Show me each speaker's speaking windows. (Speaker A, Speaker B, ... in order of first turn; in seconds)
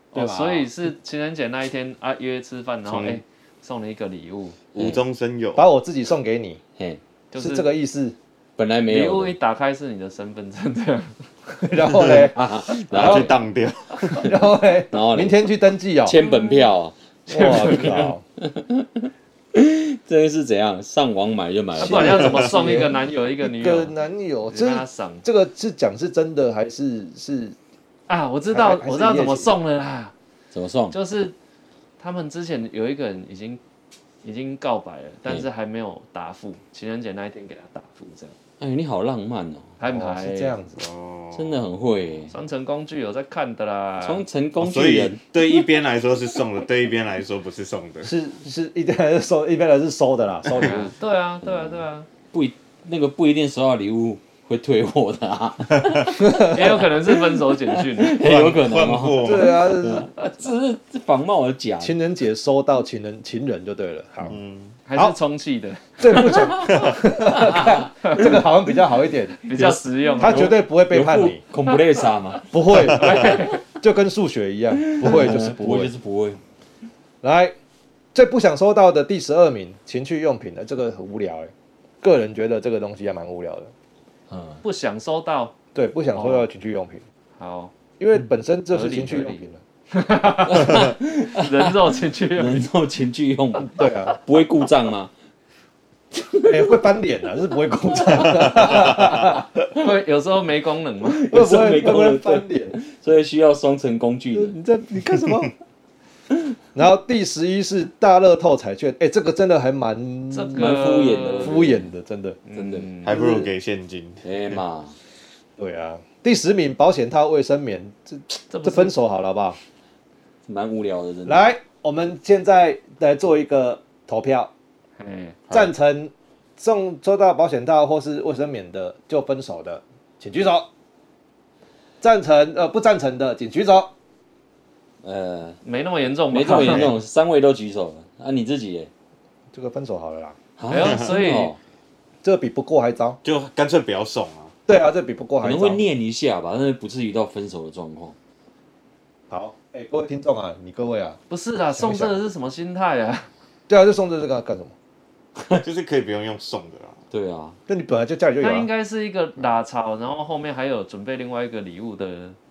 Speaker A: 0.1-0.7, 5.5-6.6, 7.3-8.2, 11.6-13.3, 14.0-16.2, 17.3-18.2, 21.8-27.6, 28.5-29.5, 39.9-40.8, 48.0-50.9, 56.2-56.5, 59.2-60.1, 61.8-64.4, 66.0-69.4, 70.2-71.4, 72.5-75.9, 77.2-77.5, 78.1-83.7, 85.7-87.0, 88.0-89.6, 93.6-94.2, 96.4-99.5, 101.3-102.8, 104.3-105.5, 106.7-110.8, 111.4-112.4, 113.0-113.5, 115.6-119.6, 121.2-124.5, 125.5-130.7, 132.0-133.9, 139.5-140.4, 142.2-143.2, 144.7-145.8, 149.3-151.2, 151.7-152.2, 153.7-154.7, 157.7-158.7
Speaker B: 0.1-4.6, 7.3-7.7, 8.9-11.2, 16.2-16.7, 17.3-18.1, 21.8-23.9, 24.5-25.2, 28.1-30.1, 30.9-31.3, 32.0-33.6, 34.2-38.3, 39.8-40.5, 42.3-44.2, 50.5-52.1, 56.3-58.2, 64.9-66.5, 68.0-68.3, 69.4-70.5, 72.7-73.6, 84.6-85.5, 86.1-86.5, 87.4-87.7, 88.7-89.4, 89.9-92.7, 99.7-101.2, 110.3-111.7, 112.5-113.2, 118.5-118.9, 125.0-125.4, 135.6-136.9, 140.7-141.5, 151.3-153.3, 158.4-162.4
Speaker C: 2.8-3.2, 4.7-5.7, 12.8-14.3, 22.2-22.5, 40.8-41.6, 44.6-48.1, 58.2-59.6, 64.2-64.8, 66.7-67.0, 113.0-114.6, 140.8-141.1, 143.2-144.5, 155.6-157.0
Speaker D: 8.6-9.3, 12.1-13.3, 14.9-15.5, 16.0-22.4, 30.5-30.9, 38.6-39.7, 41.3-42.3, 44.0-45.2, 51.4-62.0, 67.3-67.8, 69.5-72.5, 74.8-76.4, 84.3-84.6, 90.4-95.1, 96.2-96.5, 98.1-98.9, 101.0-104.6, 110.5-111.9, 112.5-112.9, 114.2-115.0, 120.5-121.4, 135.0-135.6, 136.3-138.9, 140.6-141.6, 145.4-148.2, 155.4-155.6, 157.1-157.6